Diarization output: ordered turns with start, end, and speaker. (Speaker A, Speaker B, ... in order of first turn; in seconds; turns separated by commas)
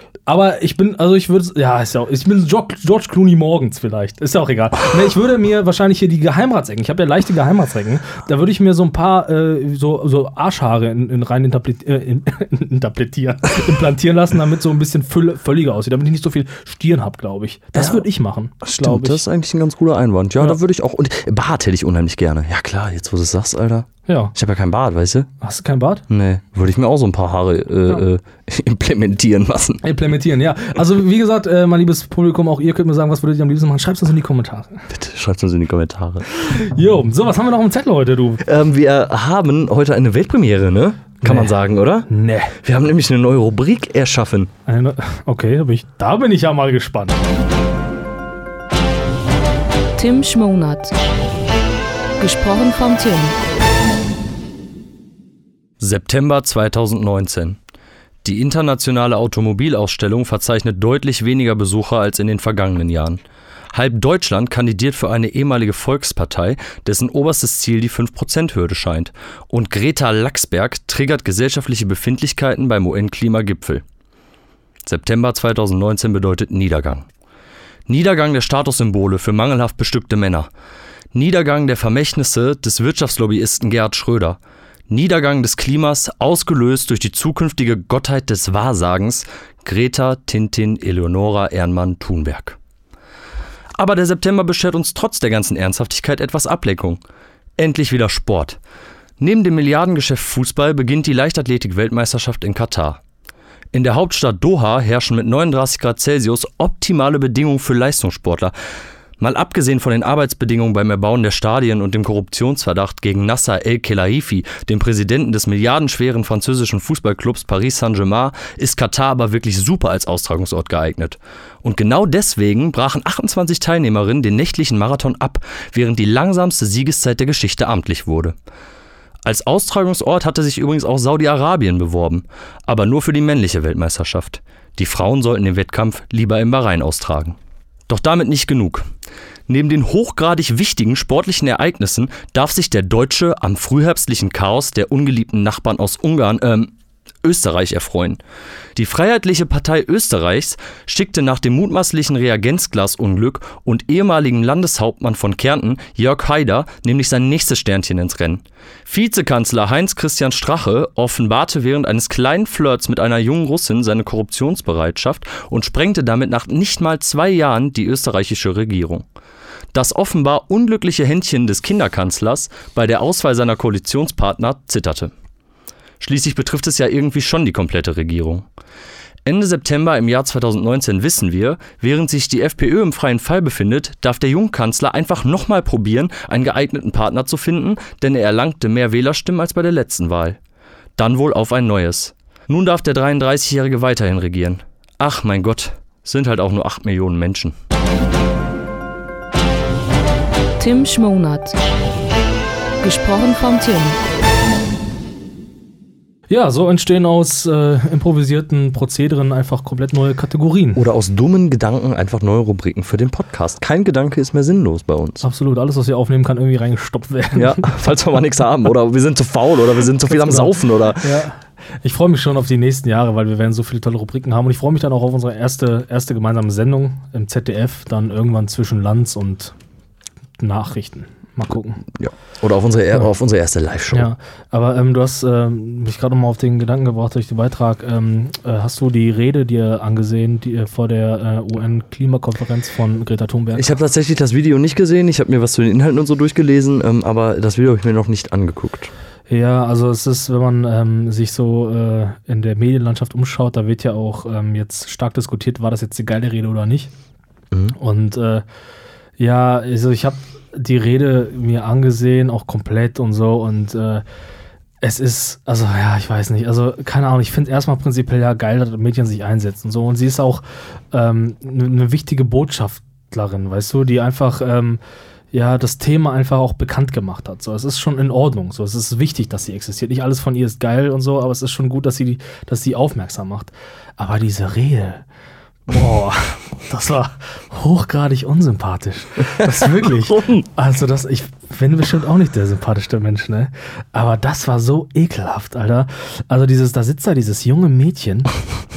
Speaker A: 0.3-19.2, Speaker B: 17.8-18.1, Speaker B: 18.6-25.3, Speaker A: 24.1-24.3, Speaker A: 25.4-26.0, Speaker B: 26.1-29.8, Speaker A: 29.8-34.9, Speaker B: 34.9-36.3, Speaker A: 36.4-38.4, Speaker B: 38.4-42.1, Speaker A: 41.2-41.6, Speaker A: 42.1-42.5, Speaker B: 42.6-44.5, Speaker A: 44.7-47.3, Speaker C: 50.0-50.9, Speaker C: 52.2-53.4, Speaker B: 55.8-57.6, Speaker B: 58.2-63.2, Speaker B: 63.7-73.8, Speaker B: 74.8-77.1, Speaker B: 77.9-80.5, Speaker B: 81.1-92.6, Speaker B: 93.8-97.0, Speaker B: 97.6-98.6, Speaker B: 99.2-103.0, Speaker B: 103.7-108.5, Speaker B: 109.2-128.3, Speaker B: 129.2-137.4, Speaker B: 137.9-138.9, Speaker B: 139.5-146.7, Speaker B: 147.2-148.2, Speaker B: 148.8-169.1, Speaker B: 169.7-175.1, Speaker B: 176.0-178.5, Speaker B: 179.3-190.4, Speaker B: 191.0-197.6, Speaker C: 200.6-201.6, Speaker C: 202.8-204.0, Speaker A: 206.3-210.8, Speaker B: 210.8-215.2, Speaker A: 215.2-217.8, Speaker B: 217.3-221.2, Speaker A: 220.1-229.5, Speaker A: 230.4-231.8, Speaker B: 231.9-234.1, Speaker A: 233.9-243.7, Speaker B: 243.6-248.9, Speaker A: 249.3-256.9, Speaker A: 257.8-258.4, Speaker A: 259.2-264.0, Speaker A: 264.8-274.8, Speaker A: 275.3-285.0, Speaker A: 285.7-298.3, Speaker B: 289.4-290.5